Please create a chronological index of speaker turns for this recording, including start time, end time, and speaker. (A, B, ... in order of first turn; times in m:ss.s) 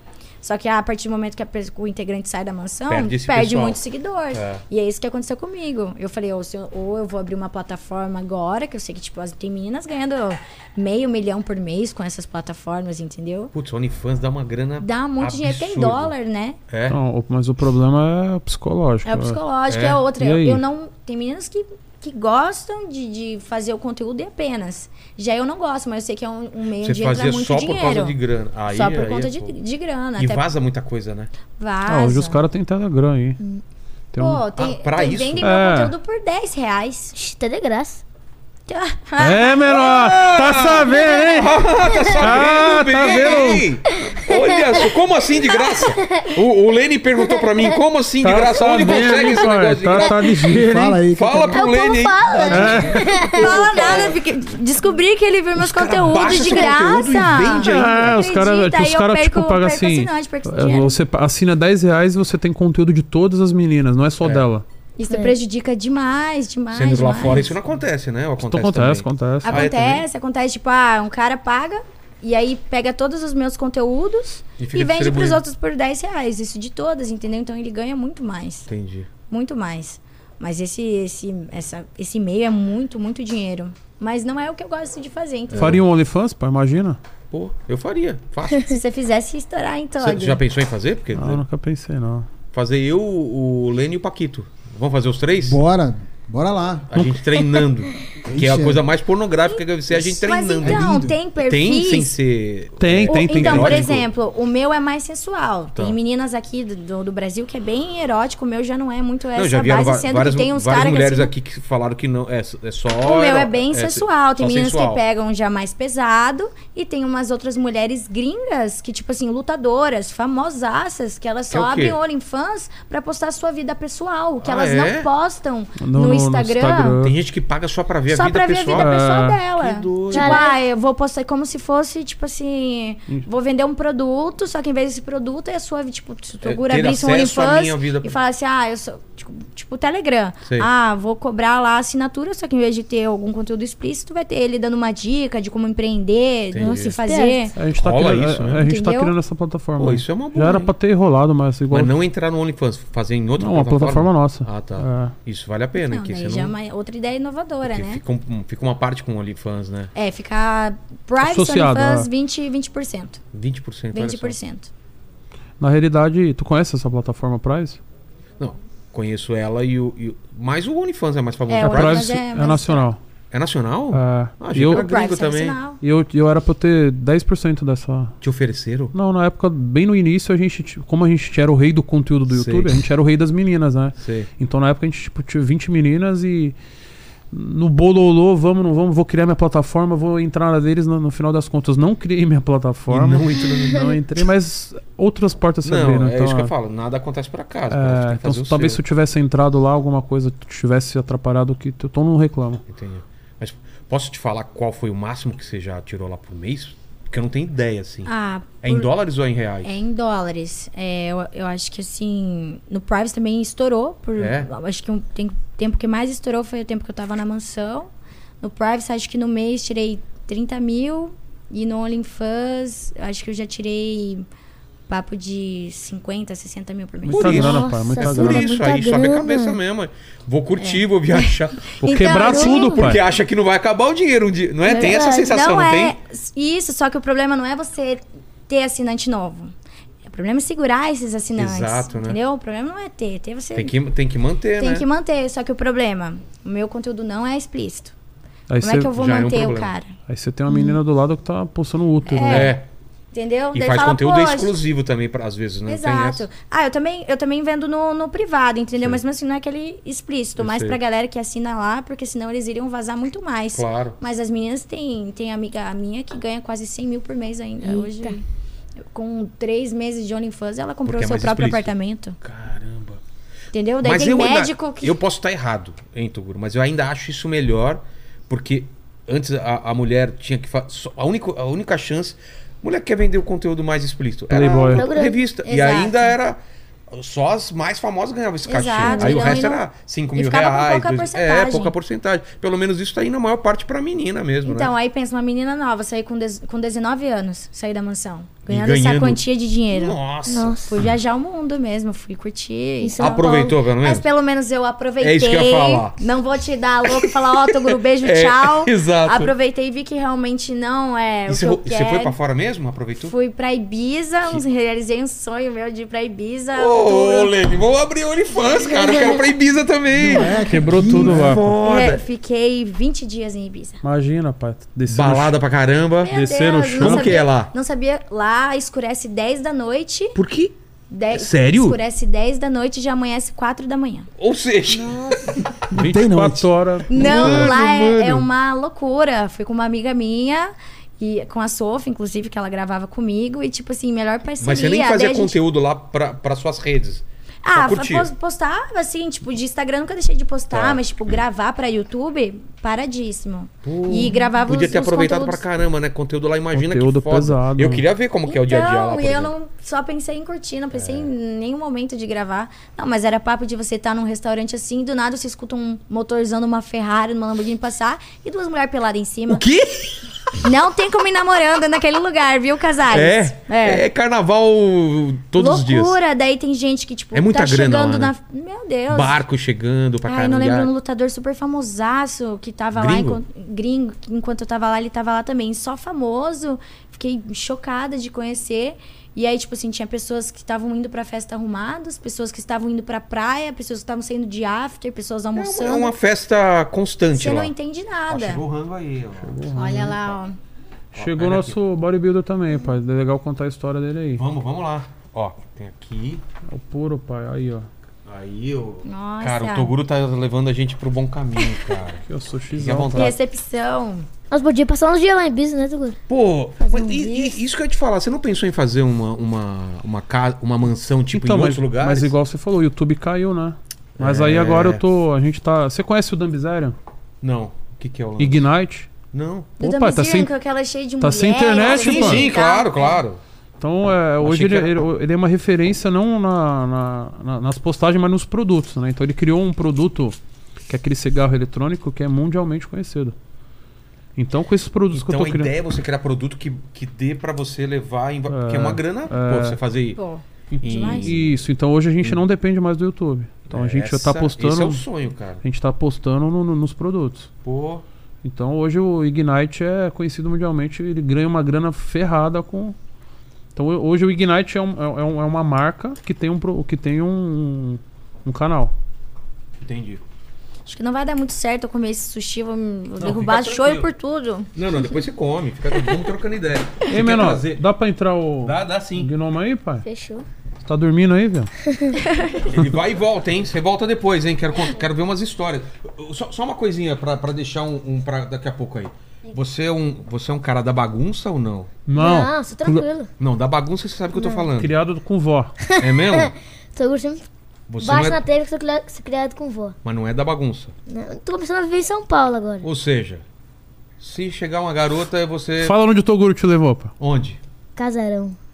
0:00.4-0:13.5 A
0:02.9-0:04.6 B
0:13.5-0:16.1 B
0:14.8-0:16.6 A
0:16.7-0:17.0 B
0:16.9-0:19.4 C
0:19.0-0:30.4 A
0:19.7-0:20.0 B
0:20.2-0:20.6 C
0:26.8-0:29.5 B
0:30.2-0:31.3 B
0:31.6-0:32.4 A
0:31.9-0:33.4 C
0:34.1-0:34.4 C
0:34.2-0:37.1 A
0:34.6-0:35.5 B
0:35.4-0:35.9 C
0:37.1-0:38.0 D
0:38.7-0:39.7 A
0:39.2-0:41.6 C
0:39.6-0:50.2 B
0:41.9-0:42.2 D
0:42.2-0:43.6 C
0:43.9-0:44.8 D
0:45.4-0:46.4 D
0:47.3-0:47.8 D
0:48.2-0:51.0 C
0:48.8-0:49.4 D
0:50.4-0:52.8 E
0:51.1-0:54.2 B
0:51.5-0:54.0 D
0:52.5-0:53.2 C
0:53.4-1:01.0 A
0:55.6-0:58.1 B
0:57.6-1:04.6 C
1:05.0-1:07.5 A
1:05.1-1:05.3 D
1:06.7-1:10.0 B
1:08.4-1:09.6 C
1:09.4-1:18.7 A
1:14.6-1:15.4 B
1:18.7-1:19.1 B
1:19.3-1:25.8 A
1:25.5-1:25.8 B
1:25.5-1:27.0 C
1:27.3-1:28.7 B
1:28.6-1:30.4 A
1:30.0-1:31.4 B
1:31.1-1:32.3 C
1:32.5-1:35.6 B
1:35.4-1:37.1 E
1:36.9-1:44.1 B
1:38.2-1:38.8 E
1:39.5-1:42.2 A
1:40.6-1:41.1 E
1:42.8-1:44.0 C
1:43.0-1:51.3 A
1:49.4-1:55.0 B
1:52.9-2:07.0 A
2:01.5-2:02.0 B
2:04.4-2:05.1 B
2:05.8-2:07.1 C
2:07.0-2:08.9 B
2:08.1-2:27.5 A
2:08.7-2:09.4 C
2:09.6-2:10.5 B
2:10.1-2:10.6 D
2:16.4-2:18.1 B
2:26.5-2:27.0 B
2:26.6-2:27.5 D
2:27.5-2:32.0 C
2:27.7-2:28.6 B
2:28.6-2:29.1 A
2:29.8-2:30.7 B
2:31.7-2:36.5 B
2:33.4-2:35.1 C
2:35.8-2:38.0 A
2:37.6-2:39.9 B
2:39.9-2:43.2 A
2:41.2-2:42.1 C
2:43.3-2:44.4 B
2:43.9-2:44.7 A
2:45.6-2:47.8 C
2:48.4-2:52.2 B
2:51.5-2:52.9 A
2:51.6-2:53.0 C
2:53.3-2:55.6 B
2:53.9-2:54.9 C
2:54.7-2:55.8 A
2:55.8-2:58.1 C
2:58.2-2:58.9 B
2:58.9-3:06.6 C
3:02.3-3:02.7 B
3:04.0-3:04.3 B
3:07.3-3:16.5 C
3:12.9-3:13.9 B
3:15.6-3:18.8 B
3:17.7-3:22.6 C
3:22.7-3:29.7 B
3:28.0-3:28.9 A
3:29.6-3:37.9 A
3:34.2-3:34.5 B
3:38.4-3:44.2 A
3:44.9-3:47.4 A
3:47.0-3:55.9 B
3:47.1-3:48.5 C
3:47.3-3:49.6 D
3:50.6-3:51.2 A
3:51.8-3:52.9 A
3:51.8-3:53.0 C
3:52.2-3:52.5 D
3:54.6-3:59.5 A
3:54.7-3:55.3 D
4:00.1-4:03.7 A
4:01.4-4:02.2 B
4:03.5-4:04.8 B
4:04.6-4:07.9 A
4:08.5-4:08.9 C
4:08.6-4:09.9 A
4:08.9-4:09.7 B
4:10.1-4:12.5 C
4:12.0-4:12.6 A
4:12.3-4:12.6 B
4:13.1-4:14.6 A
4:13.5-4:16.3 B
4:15.7-4:28.2 A
4:20.4-4:20.8 B
4:23.5-4:24.0 B
4:27.6-4:28.2 D
4:28.9-4:32.2 A
4:30.8-4:33.0 B
4:33.5-4:35.0 A
4:33.8-4:46.4 B
4:44.3-4:44.8 C
4:44.4-4:45.2 D
4:45.4-4:46.1 A
4:46.9-4:54.7 B
4:48.4-4:49.6 A
4:48.8-4:49.3 D
4:50.1-4:51.7 A
4:54.4-5:00.0 A
4:58.5-5:00.6 B
5:00.2-5:00.7 D
5:00.6-5:12.2 A
5:02.8-5:03.6 D
5:03.0-5:04.1 B
5:05.0-5:06.0 B
5:06.8-5:09.3 B
5:11.3-5:13.1 B
5:13.0-5:17.3 A
5:16.5-5:22.0 B
5:19.9-5:21.5 E
5:20.5-5:21.4 C
5:21.6-5:23.8 A
5:23.8-5:25.4 C
5:24.9-5:26.1 B
5:26.0-5:30.2 A
5:26.1-5:27.2 C
5:26.8-5:27.5 B
5:30.1-5:30.5 B
5:30.9-5:34.1 A
5:31.1-5:31.8 B
5:34.2-5:35.3 B
5:34.7-5:35.3 D
5:35.7-5:38.0 C
5:35.7-5:36.5 E
5:36.9-5:45.4 A
5:37.0-5:37.7 E
5:37.0-5:37.5 B
5:44.4-5:48.1 B
5:47.4-5:55.4 A
5:50.5-5:50.8 B
5:53.6-5:59.3 B
5:56.5-5:57.8 C
5:58.3-6:09.4 A
6:00.7-6:01.1 B
6:09.3-6:10.1 B
6:10.4-6:13.8 A
6:12.9-6:16.0 B
6:15.3-6:19.2 A
6:17.1-6:18.1 B
6:18.9-6:20.7 B
6:20.0-6:35.9 A
6:22.7-6:23.2 B
6:35.4-6:37.5 B
6:37.1-6:38.4 A
6:38.1-6:39.4 B
6:39.2-6:40.0 C
6:39.5-6:40.4 A
6:40.9-6:41.6 B
6:40.9-6:44.2 C
6:44.2-6:46.2 B
6:46.5-6:47.7 C
6:48.0-6:52.0 B
6:48.8-6:49.7 A
6:52.0-6:53.1 C
6:52.5-6:53.2 B
6:52.9-6:54.0 A
6:54.3-6:56.0 D
6:56.1-7:02.1 B
6:56.6-6:57.4 D
7:01.1-7:06.8 C
7:04.0-7:04.8 B
7:07.2-7:08.4 B
7:08.2-7:08.9 C
7:09.1-7:09.5 B
7:09.6-7:13.0 A
7:09.6-7:10.3 C
7:11.0-7:12.3 C
7:11.6-7:13.2 B
7:13.6-7:20.2 C
7:14.2-7:14.7 B
7:20.7-7:23.1 C
7:24.2-7:25.5 C
7:24.9-7:30.0 B
7:28.3-7:29.6 C
7:29.9-7:31.2 A
7:30.5-7:34.8 C
7:30.6-7:31.3 B
7:33.5-7:35.4 B
7:35.4-7:37.3 C
7:37.4-7:37.8 B
7:38.2-7:42.8 C
7:43.5-7:48.7 C
7:49.6-7:50.0 B
7:50.6-7:54.5 A
7:53.0-7:53.9 B
7:54.5-7:57.6 B
7:56.9-7:59.8 C
7:58.4-7:59.1 B
7:59.8-8:00.2 D
8:00.6-8:01.5 C
8:01.7-8:02.0 D
8:02.1-8:02.4 A
8:02.4-8:11.7 B
8:11.9-8:12.9 C
8:12.0-8:13.1 D
8:13.2-8:14.7 B
8:14.2-8:14.4 D
8:14.6-8:15.5 C
8:15.7-8:17.2 D
8:15.8-8:16.3 B
8:17.7-8:18.2 B
8:17.8-8:19.7 D
8:19.8-8:20.7 B
8:20.9-8:22.7 D
8:22.6-8:23.2 B
8:24.0-8:25.8 B
8:25.6-8:26.9 C
8:27.0-8:27.4 B
8:27.8-8:28.4 D